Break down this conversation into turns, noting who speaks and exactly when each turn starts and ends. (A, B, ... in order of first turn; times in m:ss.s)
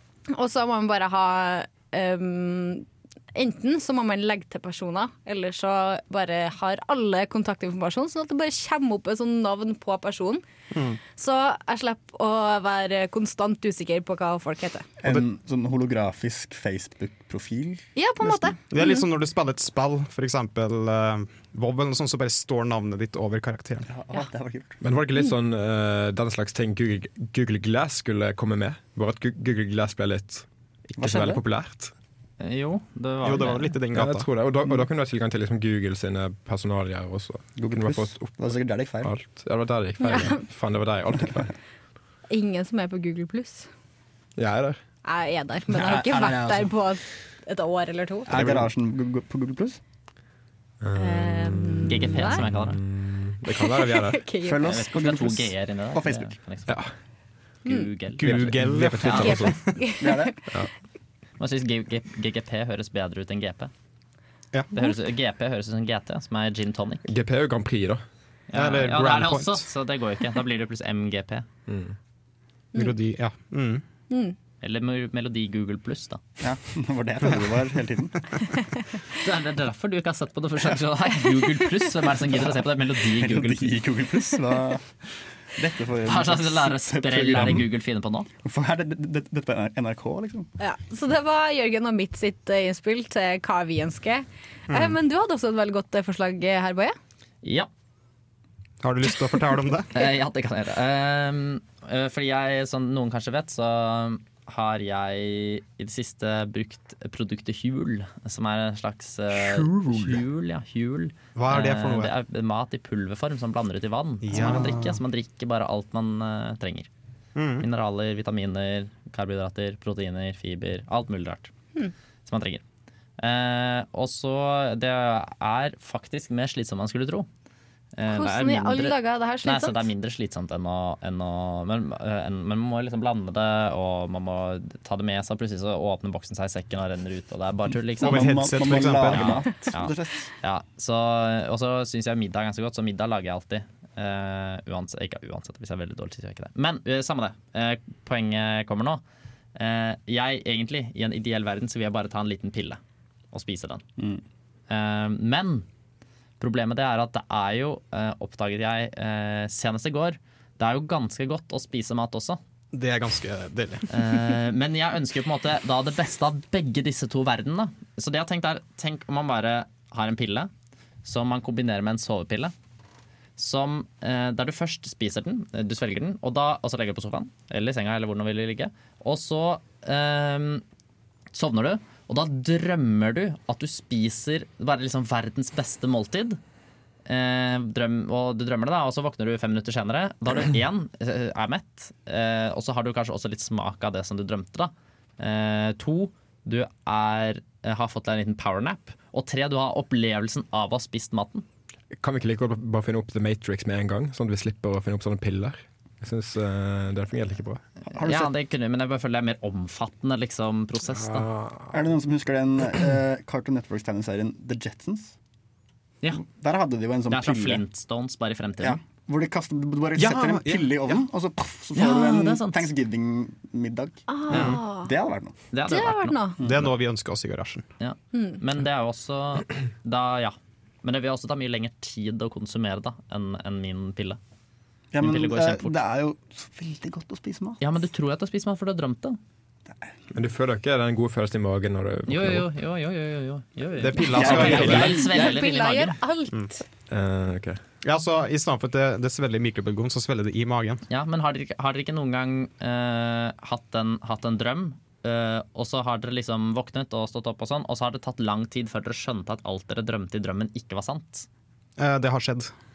0:00.3-0:10.4 A
0:10.7-0:11.0 B
0:11.2-0:14.9 A
0:15.0-0:17.9 C
0:18.0-0:19.0 A
0:18.7-0:23.9 B
0:23.9-0:24.8 C
0:24.8-0:31.9 D
0:31.0-0:31.4 C
0:32.4-0:33.8 E
0:33.2-0:34.3 B
0:33.9-0:38.5 D
0:37.6-0:39.1 C
0:39.0-0:41.5 D
0:40.0-0:40.4 A
0:42.3-0:43.7 A
0:44.4-0:44.8 D
0:45.0-0:48.3 A
0:45.7-0:46.7 C
0:48.3-0:49.8 C
0:50.8-0:54.2 D
0:51.0-0:52.4 A
0:51.9-0:52.8 E
0:53.5-0:54.6 A
0:54.4-0:56.4 C
0:54.6-0:56.8 E
0:56.7-0:56.9 D
0:57.6-0:59.3 E
0:58.2-0:59.7 B
0:58.3-0:59.6 D
0:59.1-1:00.4 A
1:00.0-1:00.5 C
1:01.4-1:03.7 E
1:04.7-1:07.0 E
1:07.0-1:08.0 D
1:08.5-1:11.5 E
1:08.5-1:09.7 B
1:11.7-1:12.0 D
1:12.8-1:13.8 B
1:14.1-1:14.4 A
1:14.6-1:16.2 E
1:16.4-1:18.6 C
1:19.2-1:23.7 E
1:23.1-1:24.9 C
1:25.5-1:27.7 C
1:26.1-1:28.3 E
1:28.4-1:30.5 C
1:30.6-1:37.0 A
1:34.7-1:35.0 B
1:37.4-1:37.7 E
1:38.8-1:39.9 B
1:39.9-1:56.9 E
1:49.5-1:50.1 B
1:51.4-1:52.1 B
1:54.2-1:55.0 B
1:57.4-1:57.7 B
1:57.6-2:01.5 E
2:02.3-2:02.6 E
2:03.2-2:07.3 E
2:08.0-2:29.0 E
2:08.1-2:09.9 A
2:18.0-2:20.3 C
2:18.0-2:19.5 B
2:29.6-2:32.8 E
2:33.3-2:33.8 E
2:34.7-2:35.7 E
2:36.4-2:42.4 E
2:42.7-2:43.9 B
2:43.9-2:50.5 E
2:51.0-2:52.5 E
2:53.4-3:00.6 E
3:01.3-3:06.4 E
3:07.1-3:21.4 E
3:22.0-3:27.6 D
3:27.9-3:28.3 C
3:28.0-3:31.3 E
3:30.9-3:31.7 D
3:31.7-3:35.2 C
3:36.2-3:37.6 C
3:37.1-3:38.8 E
3:38.6-3:45.4 C
3:40.0-3:41.0 B
3:41.8-3:42.7 E
3:44.1-3:44.9 A
3:44.3-3:44.6 B
3:45.5-3:46.3 E
3:45.7-3:46.4 A
3:46.4-3:46.7 C
3:46.4-3:47.7 B
3:47.8-3:54.2 E
3:48.1-3:48.4 A
3:54.9-3:57.6 C
3:55.0-3:55.8 E
3:57.6-3:59.2 E
4:00.1-4:02.5 D
4:02.1-4:06.0 E
4:03.8-4:05.0 B
4:04.0-4:06.6 A
4:04.1-4:05.4 C
4:06.9-4:07.6 D
4:07.8-4:10.8 B
4:10.9-4:21.3 E
4:21.8-4:22.5 B